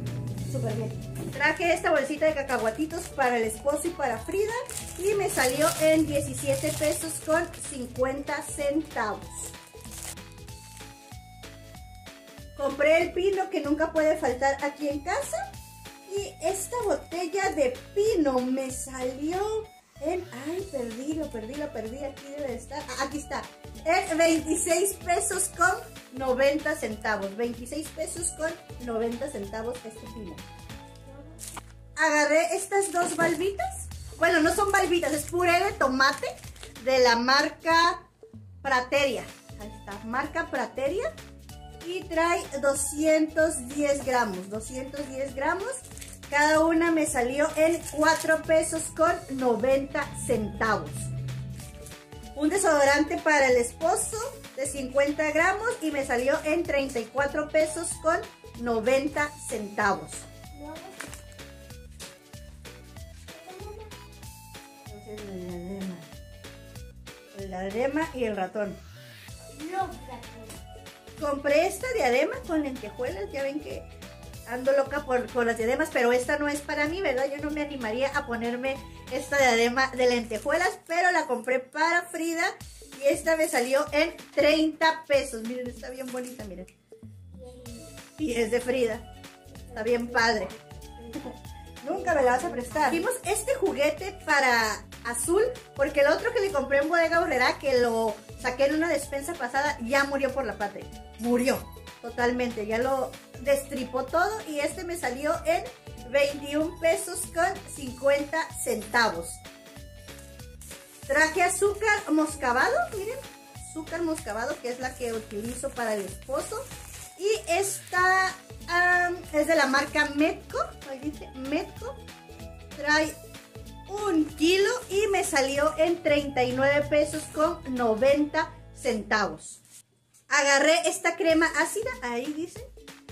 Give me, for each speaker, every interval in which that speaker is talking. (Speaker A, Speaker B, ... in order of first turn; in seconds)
Speaker A: 0.5-9.5, 12.6-15.4, 16.1-30.4, 32.0-38.0, 38.6-41.1, 41.8-51.1, 52.3-60.2, 64.8-66.1, 67.3-68.8, 71.2-73.9, 74.5-86.7, 88.2-89.1, 89.7-90.5, 91.8-109.4, 111.1-116.6, 117.2-122.0, 122.8-123.1, 123.9-129.6, 130.3-132.7
Speaker B: 60.5-61.0, 63.3-63.9, 69.5-70.6, 87.3-87.9, 89.7-90.4